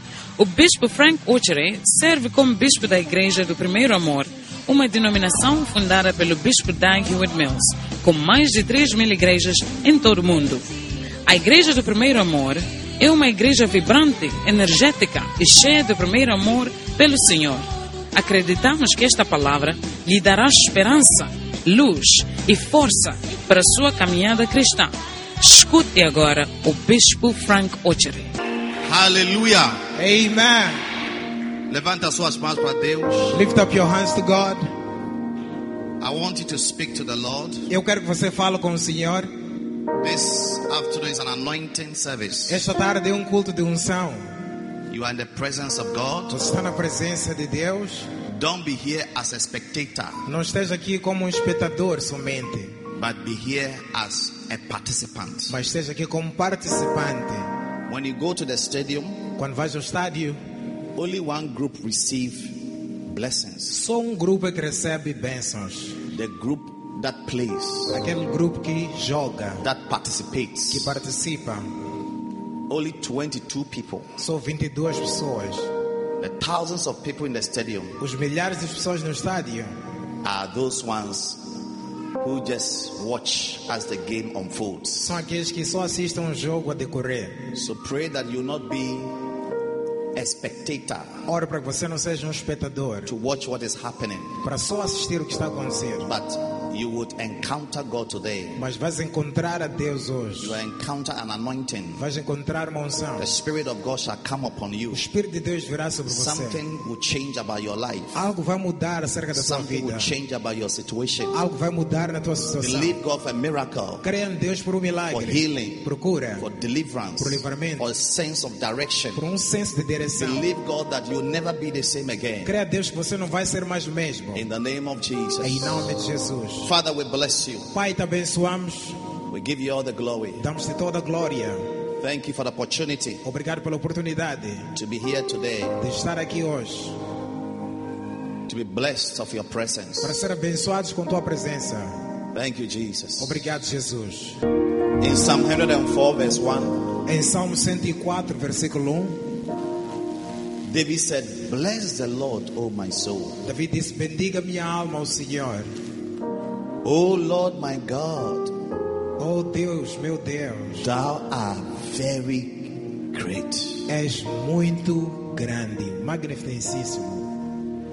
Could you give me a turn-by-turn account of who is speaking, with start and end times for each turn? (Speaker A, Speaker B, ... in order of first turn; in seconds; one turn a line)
Speaker A: 0.4-10.7
Speaker A: 11.2-28.3
Speaker B: 28.9-29.8
Speaker C: 29.9-30.8
Speaker B: 31.7-33.4
Speaker C: 33.3-34.6
Speaker B: 36.0-37.6
Speaker C: 37.7-39.3
Speaker B: 40.0-42.6
Speaker C: 42.5-44.3
Speaker B: 44.9-46.4
Speaker C: 46.3-48.1
Speaker B: 48.3-50.2
Speaker C: 50.2-52.8
Speaker B: 52.9-55.5
Speaker C: 55.5-57.5
Speaker B: 57.9-59.2
Speaker C: 59.4-60.4
Speaker B: 61.0-63.8
Speaker C: 63.7-66.0
Speaker B: 66.1-68.0
Speaker C: 67.9-69.6
Speaker B: 69.6-70.9
Speaker C: 70.7-71.7
Speaker B: 72.7-74.1
Speaker C: 74.2-75.7
Speaker B: 76.2-78.0
Speaker C: 78.0-79.7
Speaker B: 80.2-81.5
Speaker B: 82.2-85.1
Speaker C: 85.0-87.4
Speaker B: 87.5-89.2
Speaker B: 90.1-91.1
Speaker C: 91.3-93.1
Speaker B: 93.0-94.4
Speaker C: 94.4-96.1
Speaker B: 96.0-98.6
Speaker C: 98.6-100.6
Speaker B: 100.4-102.0
Speaker C: 102.0-103.3
Speaker B: 103.2-105.0
Speaker C: 104.9-106.6
Speaker B: 106.1-108.2
Speaker C: 108.1-110.1
Speaker B: 109.3-111.3
Speaker C: 111.3-113.0
Speaker B: 112.6-114.0
Speaker C: 114.0-116.4
Speaker B: 115.1-115.8
Speaker B: 116.4-119.2
Speaker C: 117.2-117.8
Speaker C: 119.1-120.4
Speaker B: 120.2-122.5
Speaker C: 122.4-124.4
Speaker B: 124.3-125.8
Speaker C: 125.4-126.7
Speaker B: 126.6-127.7
Speaker C: 127.7-129.0
Speaker B: 129.3-130.4
Speaker C: 130.4-131.6
Speaker B: 132.0-133.2
Speaker C: 133.2-134.7
Speaker B: 134.7-135.8
Speaker C: 135.8-136.9
Speaker B: 138.5-140.2
Speaker C: 140.0-141.9
Speaker B: 142.3-143.4
Speaker C: 143.2-144.4
Speaker B: 145.0-146.9
Speaker C: 147.0-149.2
Speaker B: 150.7-153.4
Speaker C: 153.4-155.7
Speaker B: 156.8-158.5
Speaker C: 159.2-160.9
Speaker B: 160.8-163.8
Speaker C: 163.9-167.3